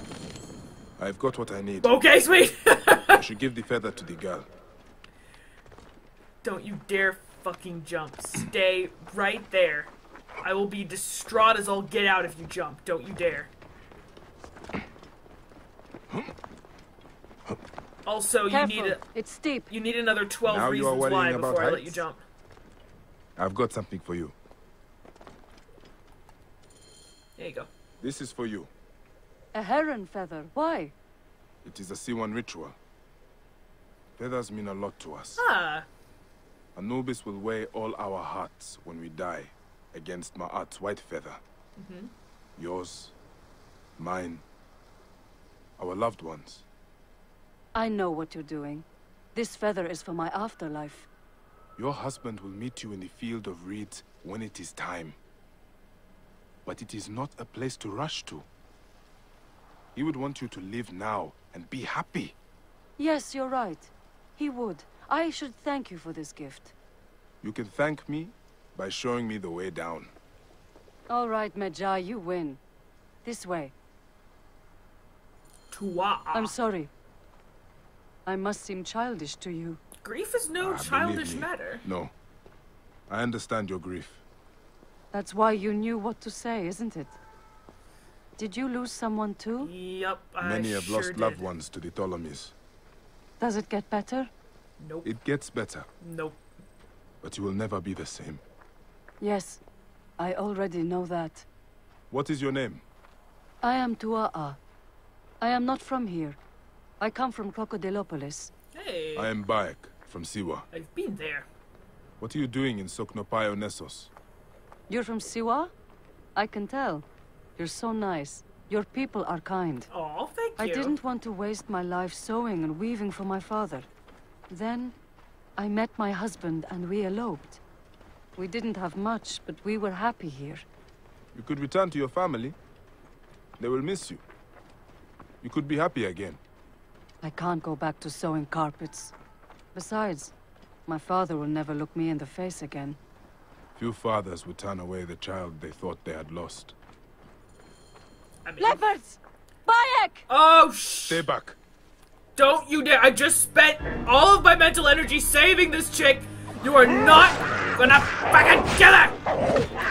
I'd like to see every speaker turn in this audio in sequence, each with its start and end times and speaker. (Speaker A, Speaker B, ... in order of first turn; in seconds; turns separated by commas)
Speaker A: 1.0-2.0, Speaker B: 1.8-3.2, Speaker A: 3.1-4.5, Speaker B: 6.4-9.9, Speaker B: 10.4-13.5, Speaker B: 18.1-19.0, Speaker C: 18.5-19.7, Speaker B: 19.7-22.2, Speaker A: 20.5-22.1, Speaker A: 23.4-24.4, Speaker B: 27.4-27.7, Speaker A: 28.0-28.7, Speaker C: 29.5-30.9, Speaker A: 31.6-32.8, Speaker A: 34.2-35.4, Speaker B: 35.4-35.9, Speaker A: 36.8-41.4, Speaker B: 41.8-42.1, Speaker A: 42.6-43.1, Speaker A: 44.0-44.4, Speaker A: 45.8-46.7, Speaker C: 47.8-51.1, Speaker A: 51.8-55.2, Speaker A: 56.6-58.5, Speaker A: 60.0-62.4, Speaker C: 63.0-66.7, Speaker A: 67.4-70.1, Speaker C: 71.1-72.6, Speaker C: 73.2-73.7, Speaker B: 75.7-76.5, Speaker C: 76.3-76.9, Speaker C: 78.3-79.8, Speaker B: 80.0-81.8, Speaker A: 80.6-82.1, Speaker A: 83.1-84.2, Speaker C: 85.1-87.2, Speaker C: 88.4-89.7, Speaker B: 89.6-91.5, Speaker A: 90.4-92.5, Speaker C: 93.4-94.3, Speaker B: 94.8-95.1, Speaker A: 95.0-95.9, Speaker B: 96.0-96.4, Speaker A: 97.2-98.4, Speaker C: 99.2-99.6, Speaker C: 100.2-101.5, Speaker A: 102.1-102.8, Speaker C: 103.6-104.6, Speaker C: 105.4-106.4, Speaker C: 107.0-108.5, Speaker B: 108.7-109.3, Speaker A: 109.2-110.7, Speaker B: 110.7-111.5, Speaker A: 112.2-114.1, Speaker C: 114.9-115.7, Speaker C: 116.3-117.1, Speaker C: 117.6-119.9, Speaker B: 119.9-121.0, Speaker C: 120.6-123.9, Speaker C: 124.5-125.0, Speaker C: 125.6-127.6, Speaker C: 128.4-130.7, Speaker A: 131.3-132.6, Speaker A: 133.6-134.2, Speaker A: 135.4-136.4, Speaker C: 137.2-139.2, Speaker C: 139.7-140.3, Speaker C: 140.9-143.0, Speaker A: 143.8-146.8, Speaker B: 148.4-148.8, Speaker C: 148.6-150.3, Speaker B: 150.3-151.2, Speaker A: 151.1-151.6, Speaker B: 152.4-159.2